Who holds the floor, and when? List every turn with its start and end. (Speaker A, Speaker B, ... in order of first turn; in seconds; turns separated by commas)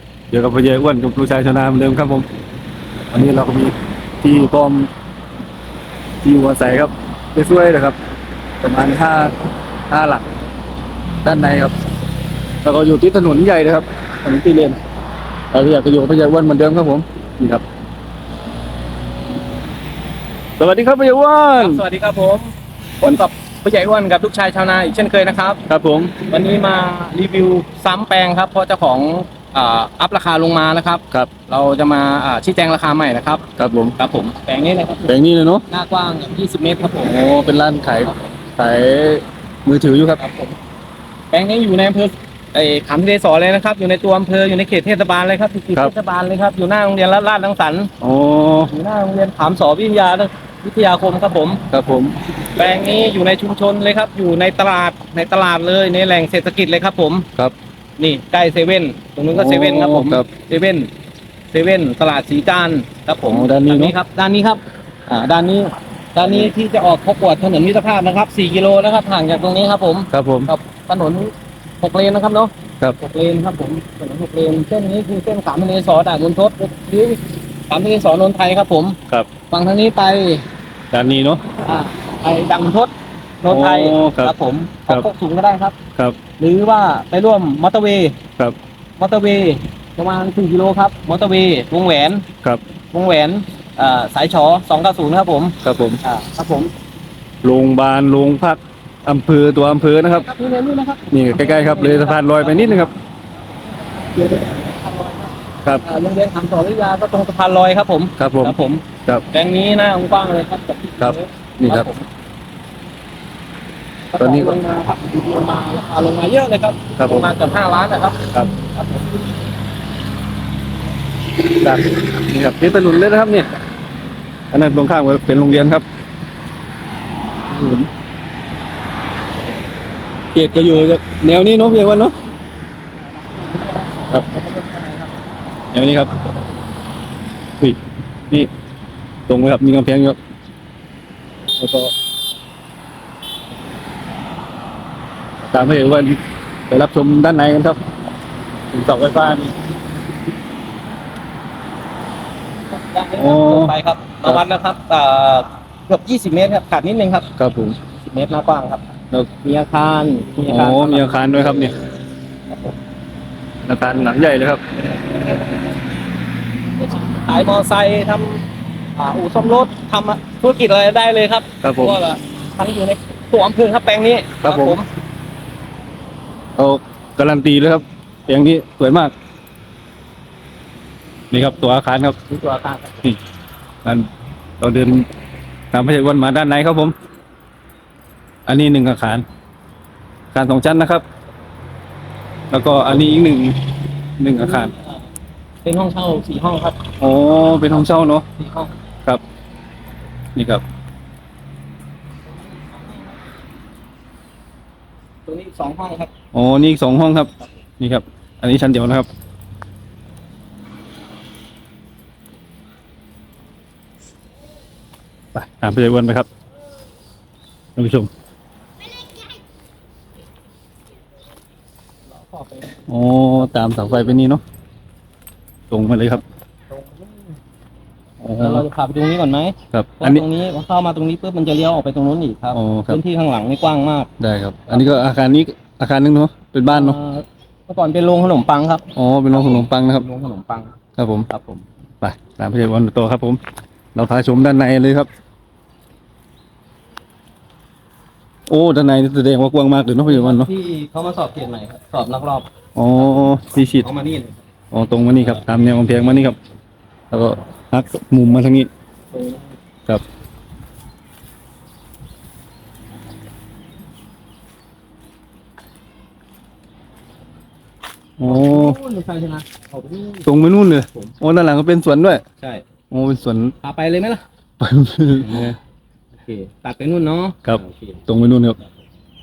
Speaker A: 0.3-2.2, Speaker A: 3.1-4.9, Speaker A: 6.2-8.0, Speaker A: 8.6-9.3, Speaker A: 9.9-10.2, Speaker A: 11.2-11.7, Speaker A: 12.6-14.8, Speaker A: 15.5-17.6, Speaker A: 20.6-21.8, Speaker B: 21.6-25.6, Speaker A: 25.7-26.1, Speaker B: 26.2-33.4, Speaker A: 33.6-33.9, Speaker B: 34.0-35.1, Speaker A: 35.0-35.6, Speaker B: 35.7-37.2, Speaker A: 37.0-40.2, Speaker B: 40.2-40.5, Speaker B: 41.3-47.9, Speaker A: 48.0-48.7, Speaker B: 48.7-51.6, Speaker A: 51.7-52.1, Speaker B: 52.5-57.3, Speaker B: 58.0-60.9, Speaker A: 59.3-60.3, Speaker B: 61.5-79.0, Speaker A: 63.2-64.0, Speaker A: 70.1-70.5, Speaker B: 79.5-80.4, Speaker A: 80.9-81.4, Speaker B: 81.6-85.8, Speaker A: 83.5-84.3, Speaker B: 86.4-88.2, Speaker B: 89.0-92.2, Speaker B: 92.9-96.7, Speaker A: 95.6-96.0, Speaker A: 97.4-100.2, Speaker B: 100.1-102.9, Speaker A: 101.1-102.9, Speaker B: 103.7-112.0, Speaker A: 108.2-109.2, Speaker A: 111.0-111.9, Speaker B: 114.1-119.3, Speaker A: 114.2-114.6, Speaker A: 117.0-117.3, Speaker A: 121.5-123.5, Speaker A: 124.5-125.8, Speaker A: 130.3-132.1, Speaker B: 133.2-135.1, Speaker A: 135.7-136.1, Speaker A: 137.6-138.5, Speaker A: 139.3-140.2, Speaker A: 141.6-141.9, Speaker A: 145.5-146.2, Speaker A: 146.7-147.8, Speaker A: 148.7-149.5, Speaker B: 152.7-157.3, Speaker A: 153.2-153.7, Speaker A: 157.4-157.8, Speaker B: 157.9-158.9, Speaker B: 159.4-161.4, Speaker A: 160.5-161.7, Speaker A: 163.7-164.9, Speaker B: 166.8-168.4, Speaker B: 168.9-174.8, Speaker A: 171.6-172.0, Speaker A: 174.4-174.8, Speaker A: 176.6-179.1, Speaker A: 181.3-182.2, Speaker B: 182.3-183.1, Speaker A: 184.6-185.1, Speaker A: 185.7-186.9, Speaker A: 188.4-189.2, Speaker A: 190.3-191.0, Speaker A: 192.5-193.7, Speaker A: 194.2-194.7, Speaker B: 194.4-194.8, Speaker B: 195.6-196.8, Speaker A: 197.0-198.2, Speaker B: 198.4-198.7, Speaker A: 200.3-200.6, Speaker B: 202.3-203.2, Speaker B: 205.3-206.1, Speaker A: 206.3-209.1, Speaker A: 215.3-216.3, Speaker A: 217.8-218.1, Speaker B: 222.1-222.8, Speaker A: 222.9-224.4, Speaker A: 225.7-226.2, Speaker B: 226.7-227.3, Speaker A: 228.2-228.7, Speaker B: 228.4-234.1, Speaker A: 229.7-230.2, Speaker A: 232.5-233.0, Speaker A: 234.2-237.0, Speaker B: 234.7-234.9, Speaker B: 236.7-240.7, Speaker A: 238.9-240.1, Speaker A: 241.0-241.3, Speaker B: 241.3-241.6, Speaker A: 242.0-243.4, Speaker A: 243.9-245.1, Speaker A: 248.5-250.5, Speaker B: 250.0-252.5, Speaker A: 252.8-253.9, Speaker B: 253.8-254.4, Speaker A: 254.7-256.4, Speaker A: 257.1-258.7, Speaker B: 259.1-259.5, Speaker A: 268.2-268.8, Speaker B: 268.2-270.3, Speaker A: 270.2-272.2, Speaker A: 272.9-273.5, Speaker B: 273.6-274.2, Speaker A: 274.6-275.6, Speaker B: 275.2-275.6, Speaker B: 276.2-278.0, Speaker A: 277.4-278.6